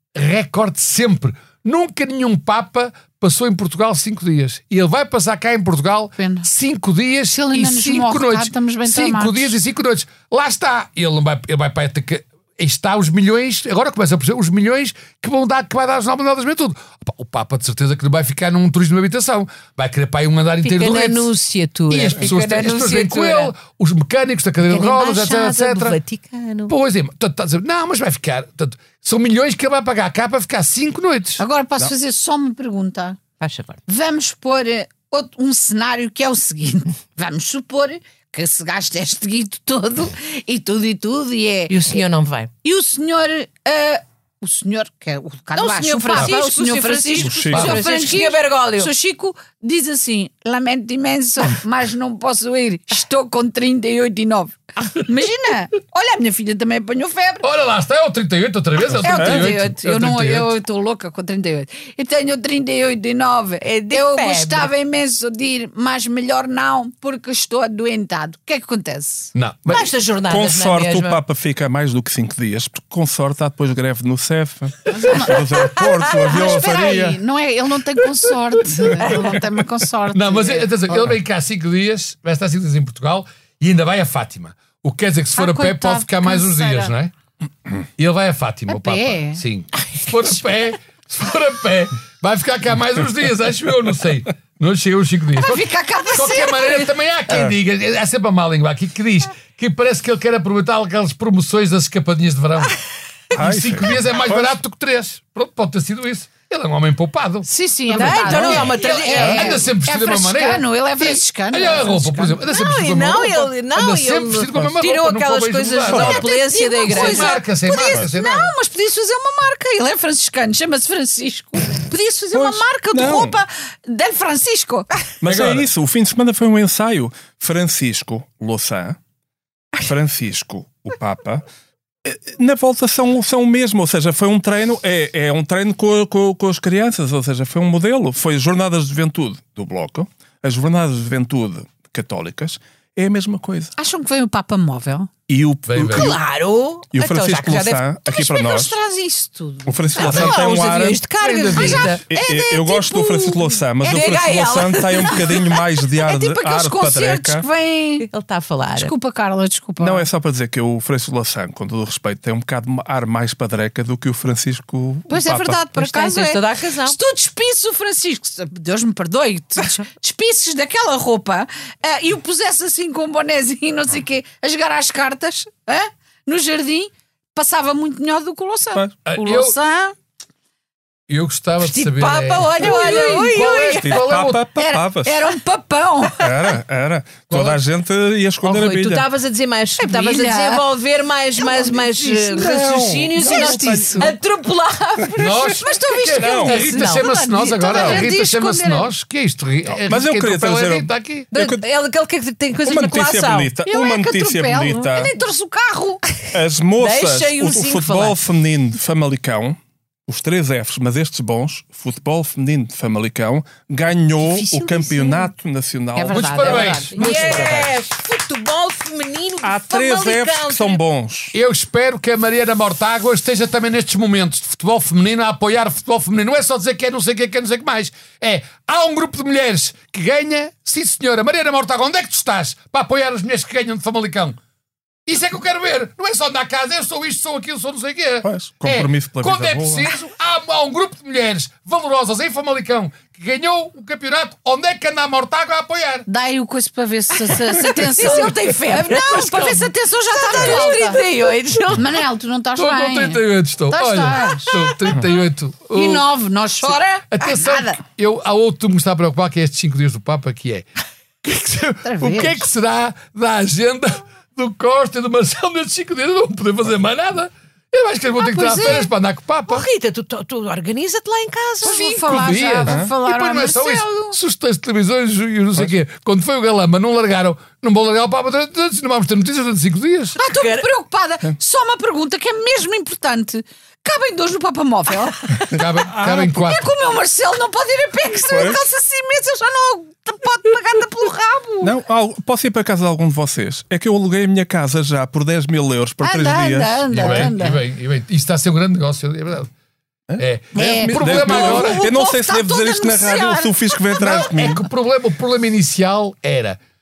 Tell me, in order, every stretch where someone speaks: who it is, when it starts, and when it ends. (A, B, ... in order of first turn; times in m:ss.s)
0:00.1-0:21.3 A
0:06.2-0:06.5 B
0:07.3-0:09.6 B
0:20.6-0:23.5 C
0:21.9-0:26.0 A
0:24.6-0:26.7 C
0:26.7-0:31.4 A
0:31.4-0:33.2 B
0:33.4-0:33.8 C
0:33.9-0:42.0 B
0:41.7-0:42.5 C
0:42.6-0:57.5 B
0:45.5-0:48.9 C
0:47.2-0:47.8 D
0:47.5-0:47.8 A
0:57.4-1:00.6 A
0:59.0-1:09.3 B
0:59.0-0:59.5 D
1:03.6-1:04.7 C
1:09.3-1:09.9 A
1:09.7-1:11.2 C
1:10.3-1:17.2 D
1:14.9-1:21.1 B
1:18.9-1:19.4 D
1:20.1-1:27.1 A
1:25.4-1:26.9 B
1:28.0-1:42.8 A
1:28.7-1:29.4 B
1:35.4-1:36.9 B
1:43.3-1:44.5 D
1:43.3-1:56.2 A
1:47.4-1:52.4 B
1:47.9-1:49.6 C
1:48.3-1:49.4 D
1:52.5-1:57.4 C
1:55.9-1:56.3 D
1:56.0-2:05.0 B
1:56.8-1:58.5 A
2:02.3-2:03.4 D
2:05.2-2:09.0 D
2:05.2-2:05.7 A
2:09.8-2:11.4 D
2:12.0-2:23.7 D
2:23.8-2:25.1 B
2:25.3-2:26.2 D
2:25.6-2:26.1 A
2:25.9-2:28.0 C
2:26.9-2:28.8 D
2:28.1-2:30.4 B
2:29.6-2:31.0 D
2:29.9-2:32.0 C
2:30.0-2:30.4 A
2:31.2-2:32.0 A
2:31.5-2:35.4 B
2:32.1-2:37.4 D
2:33.8-2:35.4 C
2:36.0-2:38.1 B
2:38.0-2:38.9 C
2:38.7-2:40.1 B
2:39.8-2:45.6 D
2:45.1-2:59.9 B
2:45.7-2:47.0 C
2:59.0-2:59.6 A
3:01.1-3:04.4 A
3:01.6-3:03.8 C
3:02.6-3:03.8 B
3:03.8-3:05.3 D
3:04.5-3:06.5 B
3:06.2-3:09.0 D
3:07.3-3:07.6 A
3:08.4-3:17.1 C
3:09.8-3:10.7 B
3:11.4-3:14.1 B
3:12.4-3:14.1 D
3:15.2-3:21.3 A
3:15.2-3:15.4 D
3:15.5-3:18.9 B
3:16.1-3:16.5 D
3:17.7-3:18.0 D
3:19.9-3:21.6 D
3:21.3-3:23.5 C
3:22.6-3:25.1 D
3:23.7-3:26.0 B
3:26.3-3:37.7 D
3:26.8-3:28.2 C
3:34.2-3:35.3 C
3:35.9-3:37.5 B
3:36.1-3:37.6 A
3:36.5-3:40.8 C
3:39.4-3:41.3 D
3:41.3-3:54.4 A
3:55.0-4:06.1 A
3:58.2-3:59.9 D
4:06.1-4:11.0 B
4:07.5-4:12.0 C
4:10.4-4:10.7 D
4:11.7-4:14.6 B
4:12.6-4:16.1 A
4:15.7-4:17.8 B
4:16.6-4:20.6 A
4:21.2-4:29.6 A
4:21.8-4:22.4 B
4:28.2-4:28.9 B
4:29.5-4:32.2 C
4:31.6-4:34.2 B
4:31.6-4:40.2 A
4:32.6-4:32.9 D
4:40.2-4:51.7 B
4:40.3-4:40.7 C
4:45.5-4:46.7 A
4:48.2-4:48.7 D
4:51.6-4:57.3 D
4:56.0-4:57.6 B
4:56.9-4:59.5 A
5:00.1-5:04.6 D
5:00.2-5:01.8 A
5:00.5-5:04.3 B
5:04.0-5:06.6 A